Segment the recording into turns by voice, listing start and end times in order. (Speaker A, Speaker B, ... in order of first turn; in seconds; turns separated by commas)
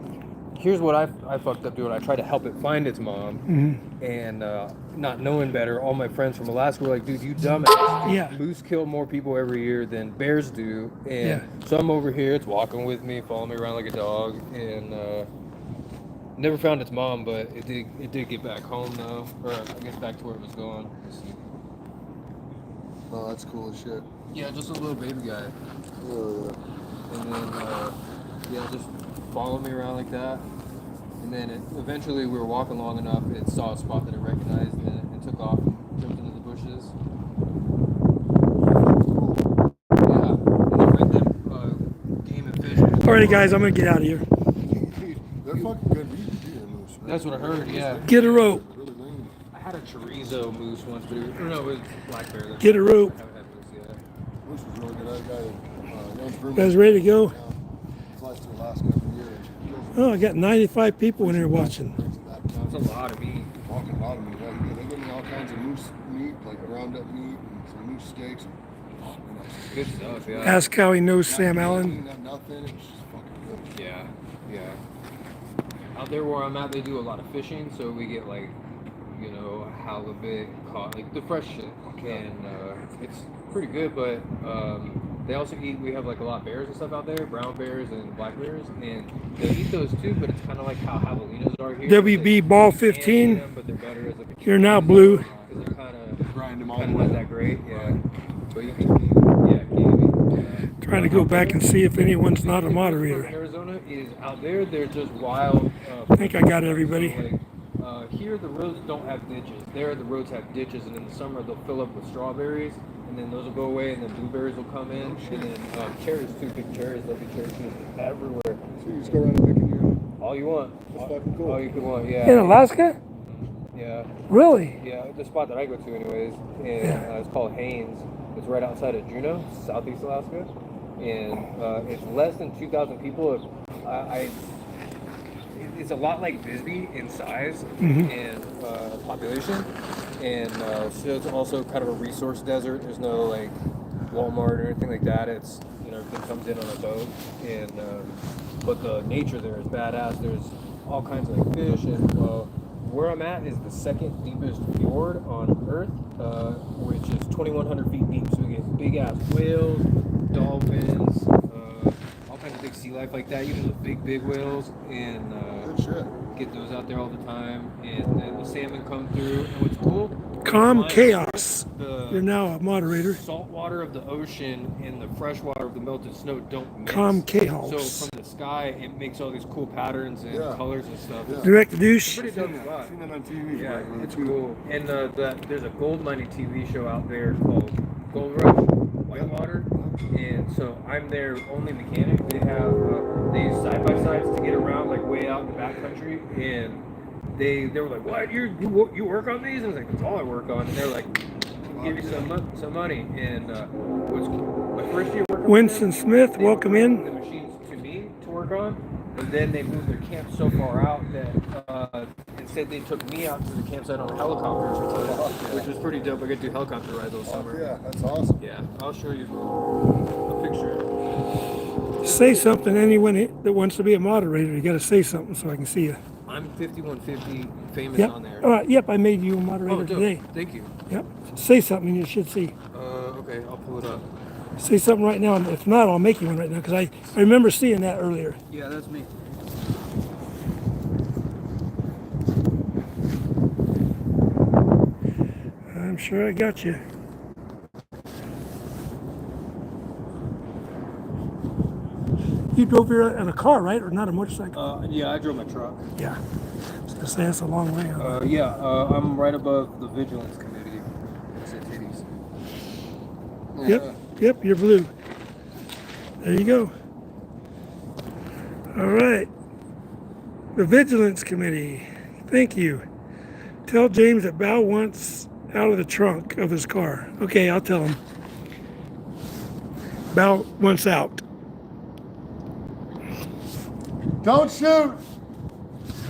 Speaker A: 0.5-3.5, Speaker B: 3.5-3.8, Speaker A: 4.0-15.3, Speaker B: 8.1-8.3, Speaker A: 16.4-21.4, Speaker C: 23.1-24.1, Speaker A: 24.3-25.6, Speaker C: 26.0-26.6, Speaker A: 27.1-27.9, Speaker A: 28.5-30.5, Speaker A: 31.2-36.9, Speaker C: 38.7-39.5, Speaker A: 40.0-43.6, Speaker B: 43.0-44.2, Speaker C: 44.7-49.4, Speaker A: 47.0-48.5, Speaker B: 48.0-48.6, Speaker A: 49.5-54.0, Speaker B: 52.6-53.1, Speaker C: 54.4-57.6, Speaker B: 56.5-57.3, Speaker C: 58.1-60.3, Speaker B: 59.9-61.9, Speaker C: 61.2-63.0, Speaker A: 62.7-63.5, Speaker C: 63.6-70.7, Speaker A: 69.7-70.6, Speaker B: 70.4-72.0, Speaker C: 71.2-73.7, Speaker A: 73.7-74.8, Speaker A: 75.9-78.6, Speaker A: 79.1-96.2, Speaker C: 81.9-82.2, Speaker B: 91.9-93.4, Speaker B: 94.4-95.3, Speaker C: 94.6-98.0, Speaker A: 96.7-98.0, Speaker A: 98.5-101.6, Speaker B: 100.8-103.3, Speaker A: 102.3-118.6, Speaker B: 106.2-107.2, Speaker C: 114.9-115.6, Speaker C: 118.8-120.0, Speaker A: 120.2-122.6, Speaker C: 120.9-122.0, Speaker B: 122.2-123.0, Speaker A: 123.2-124.1, Speaker B: 124.3-124.8, Speaker A: 124.8-134.4, Speaker A: 135.5-165.7, Speaker B: 137.8-138.1, Speaker C: 165.6-166.2, Speaker A: 166.3-172.3, Speaker B: 170.4-173.2, Speaker A: 172.8-182.9, Speaker B: 176.8-178.1, Speaker C: 180.3-180.6, Speaker C: 181.2-181.6, Speaker B: 181.4-182.2, Speaker C: 182.1-184.4, Speaker A: 183.5-201.2, Speaker C: 189.1-190.1, Speaker C: 201.7-202.3, Speaker A: 201.7-217.7, Speaker B: 205.4-207.0, Speaker C: 214.9-215.7, Speaker C: 217.2-218.4, Speaker A: 218.4-219.6, Speaker A: 220.2-220.9, Speaker B: 222.0-226.0, Speaker A: 222.0-222.7, Speaker A: 226.2-228.5, Speaker B: 227.9-230.2, Speaker A: 229.7-230.7, Speaker B: 230.9-232.5, Speaker A: 232.7-234.1, Speaker B: 234.6-238.4, Speaker A: 238.5-239.1, Speaker B: 245.7-246.8, Speaker B: 252.5-254.6, Speaker A: 254.5-255.9, Speaker B: 256.9-258.2, Speaker A: 258.0-262.1, Speaker C: 263.5-264.0, Speaker B: 263.6-264.9, Speaker B: 266.2-266.7, Speaker B: 268.7-269.3, Speaker B: 270.5-272.8, Speaker B: 273.7-278.0, Speaker B: 280.1-281.2, Speaker C: 284.2-285.0